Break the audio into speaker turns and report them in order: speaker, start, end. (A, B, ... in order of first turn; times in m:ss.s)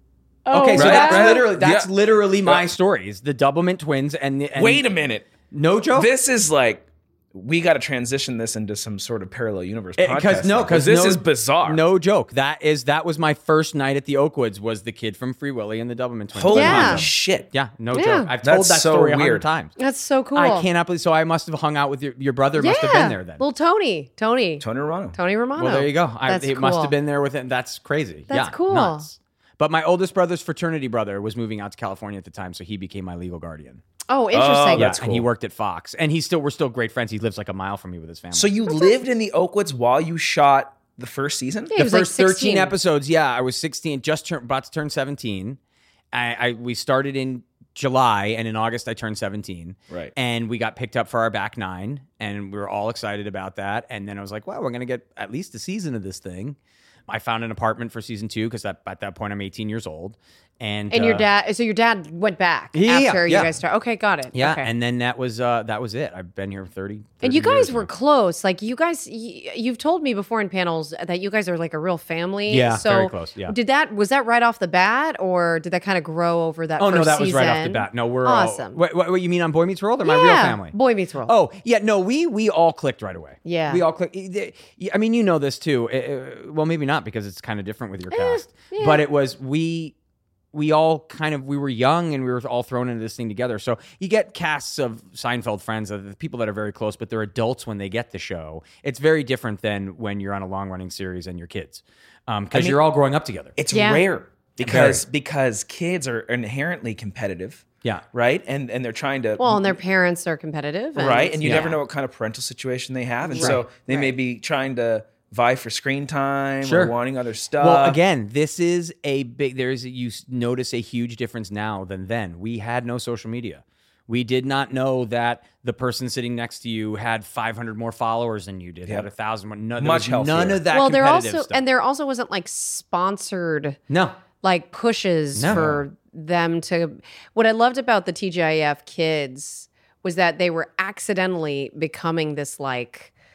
0:00.5-0:01.5 A
0:00.5-0:04.9 B
0:00.8-0:01.9 C
0:02.4-0:02.7 C
0:04.6-0:05.3 C
0:05.5-0:06.1 B
0:05.9-0:11.8 C
0:10.0-0:19.7 B
0:16.3-0:17.5 C
0:16.5-0:17.1 A
0:17.9-0:18.3 A
0:18.4-0:19.5 C
0:19.8-0:20.7 A
0:20.4-0:23.4 B
0:22.6-0:26.9 A
0:24.6-0:25.2 C
0:25.6-0:33.8 B
0:28.3-0:29.1 A
0:34.1-0:35.0 A
0:34.3-0:35.3 C
0:34.8-0:38.6 B
0:38.3-0:41.8 C
0:41.7-0:42.7 A
0:41.8-0:45.6 B
0:46.1-0:56.6 B
0:57.1-1:01.3 B
1:00.9-1:04.7 A
1:02.7-1:03.6 B
1:04.3-1:07.9 B
1:07.2-1:18.8 A
1:12.5-1:13.6 B
1:16.8-1:30.0 B
1:20.0-1:21.3 A
1:23.5-1:23.8 A
1:28.1-1:29.0 A
1:30.5-1:43.6 B
1:42.5-1:42.8 C
1:43.6-1:49.8 C
1:43.7-1:44.0 A
1:44.6-1:45.0 B
1:49.4-1:51.8 A
1:51.0-1:58.0 C
1:51.4-1:51.7 B
1:53.2-1:54.1 A
1:56.6-1:56.9 B
1:57.6-2:11.6 B
2:09.8-2:10.6 C
2:10.7-2:13.8 A
2:13.9-2:14.2 B
2:14.4-2:23.1 A
2:15.4-2:15.6 B
2:15.5-2:15.8 C